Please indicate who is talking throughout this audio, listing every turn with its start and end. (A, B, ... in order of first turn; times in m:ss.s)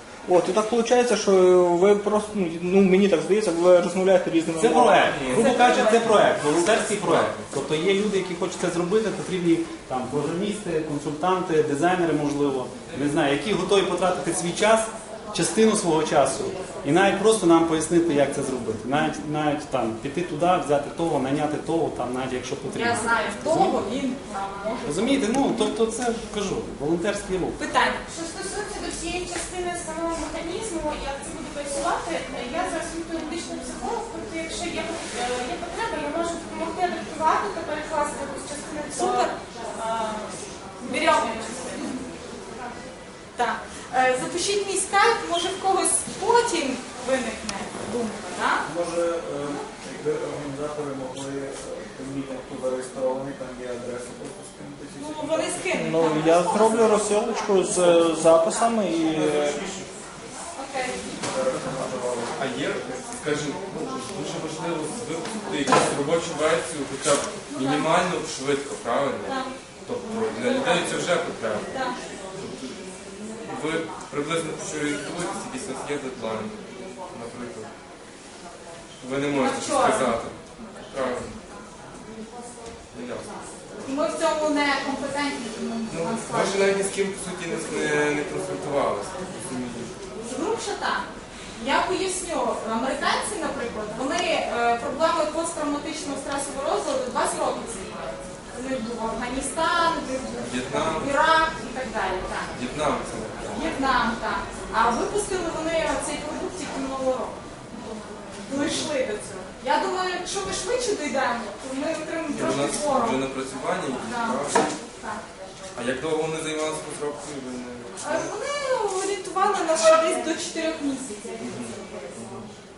0:00.2-0:05.2 A
0:04.6-0:23.8 B
0:05.0-0:07.4 C
0:05.3-0:06.3 D
0:12.9-0:13.1 C
0:22.7-0:25.6 D
0:24.8-0:27.6 B
0:27.6-0:28.0 D
0:28.0-0:40.3 E
0:38.9-0:39.4 D
0:40.8-0:42.0 E
0:40.8-0:41.8 D
0:43.4-0:48.7 D
0:48.6-0:55.8 F
0:55.0-0:57.2 D
0:55.7-0:59.6 A
0:59.4-0:59.8 F
1:00.6-1:01.1 D
1:01.2-1:03.0 F
1:02.4-1:11.7 C
1:07.5-1:07.9 D
1:09.2-1:09.5 D
1:10.5-1:11.0 D
1:11.7-1:12.0 D
1:12.3-1:12.8 C
1:13.4-1:17.7 C
1:19.0-1:21.4 C
1:19.3-1:21.7 D
1:22.9-1:23.4 C
1:23.8-1:26.7 D
1:25.9-1:29.9 C
1:30.2-1:42.6 D
1:40.4-1:41.1 C
1:42.5-1:43.8 C
1:43.5-1:53.2 D
1:48.5-1:48.9 C
1:52.3-1:54.7 C
1:54.0-1:55.2 D
1:55.8-1:58.3 C
1:58.0-2:01.4 D
2:01.4-2:02.5 C